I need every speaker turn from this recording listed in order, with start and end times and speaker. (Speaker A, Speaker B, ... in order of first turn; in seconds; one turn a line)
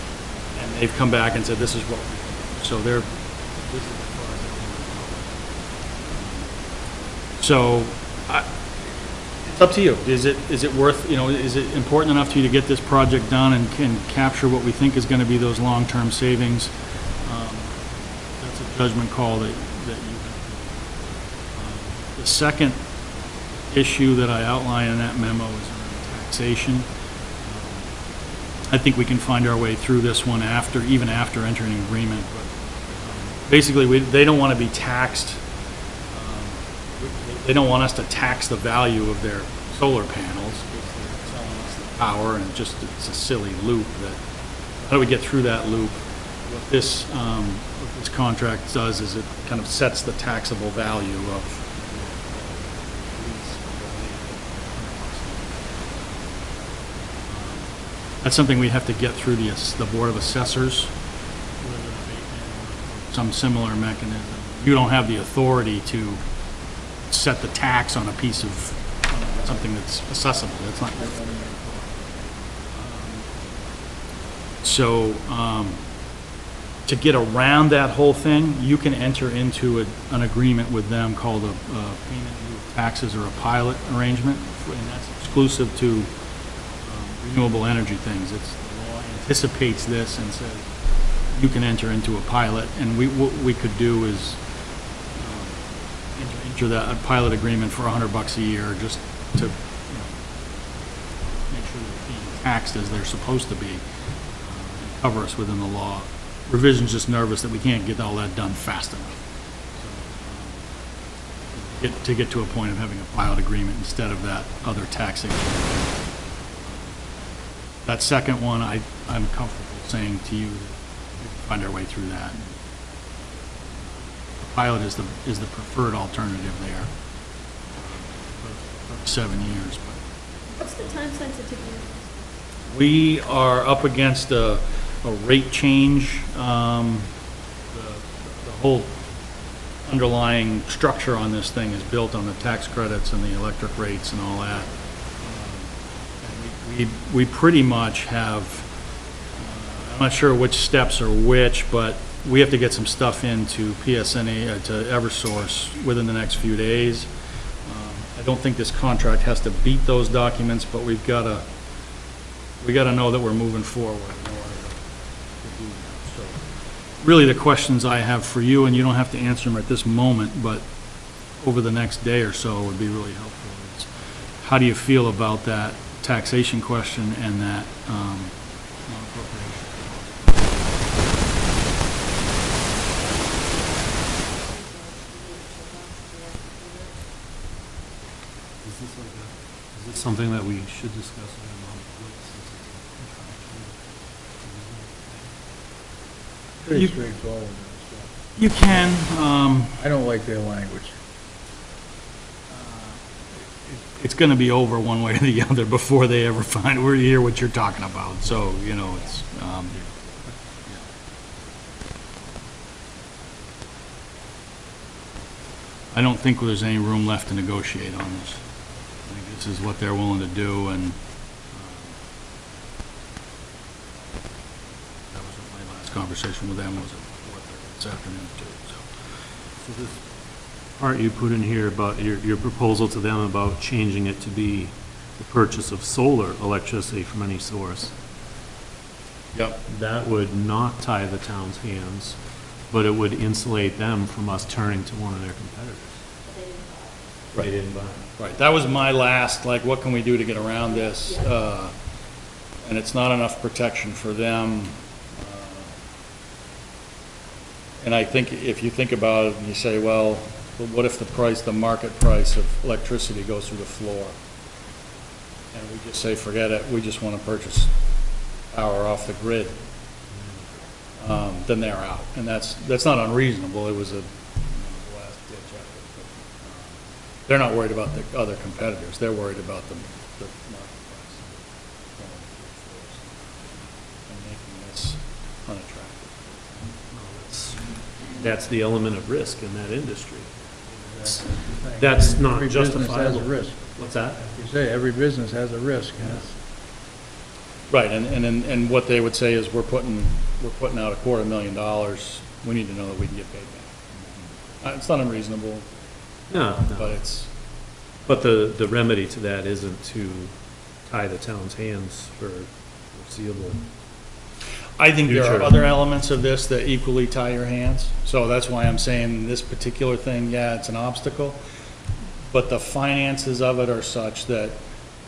Speaker A: 0.5-6.5
Speaker A: 7.4-8.5
Speaker A: 9.4-22.8
Speaker A: 23.7-26.9
Speaker A: 27.4-27.9
Speaker A: 28.6-35.4
Speaker A: 36.1-44.2
Speaker A: 44.8-56.5
Speaker A: 57.2-60.9
Speaker A: 61.6-66.2
Speaker A: 67.1-72.1
Speaker A: 72.7-73.4
Speaker A: 74.6-75.8
Speaker A: 76.8-86.1
Speaker A: 86.8-90.7
Speaker A: 91.3-94.4
Speaker A: 95.2-95.6
Speaker A: 96.1-100.2
Speaker A: 101.5-103.8
Speaker A: 104.4-109.2
Speaker A: 109.8-110.6
Speaker A: 111.5-116.1
Speaker A: 116.6-117.0
Speaker A: 117.8-122.5
Speaker A: 124.4-126.9
Speaker A: 127.7-130.1
Speaker B: 130.5-132.3
Speaker A: 132.7-137.1
Speaker A: 137.7-139.0
Speaker A: 139.8-148.7
Speaker A: 149.4-157.1
Speaker A: 157.7-161.5
Speaker A: 162.6-166.4
Speaker A: 167.0-170.7
Speaker A: 171.4-182.4
Speaker B: 183.0-187.1
Speaker C: 188.6-193.8
Speaker C: 194.4-195.4
Speaker D: 196.6-198.1
Speaker A: 196.7-196.9
Speaker A: 198.4-199.8
Speaker D: 199.8-201.0
Speaker A: 202.5-209.8
Speaker A: 215.9-218.4
Speaker A: 219.0-221.0
Speaker A: 221.5-222.0
Speaker A: 225.1-228.9
Speaker C: 229.6-230.0
Speaker C: 230.8-238.0
Speaker A: 239.3-239.6
Speaker C: 239.7-246.0
Speaker B: 246.2-247.0
Speaker C: 247.3-248.1
Speaker A: 248.2-251.7
Speaker B: 250.7-251.4
Speaker A: 252.6-255.8
Speaker A: 257.8-264.2
Speaker A: 265.5-267.7
Speaker A: 268.5-269.6
Speaker C: 270.1-270.4
Speaker A: 271.0-276.7
Speaker A: 277.2-286.4
Speaker C: 286.9-290.3
Speaker D: 290.9-293.6
Speaker C: 291.8-294.3
Speaker D: 294.2-296.4
Speaker A: 297.7-303.9
Speaker A: 304.6-305.7
Speaker C: 306.3-307.0
Speaker A: 306.3-307.3
Speaker C: 308.0-313.7
Speaker A: 314.8-321.4
Speaker C: 315.1-315.6
Speaker A: 322.3-324.6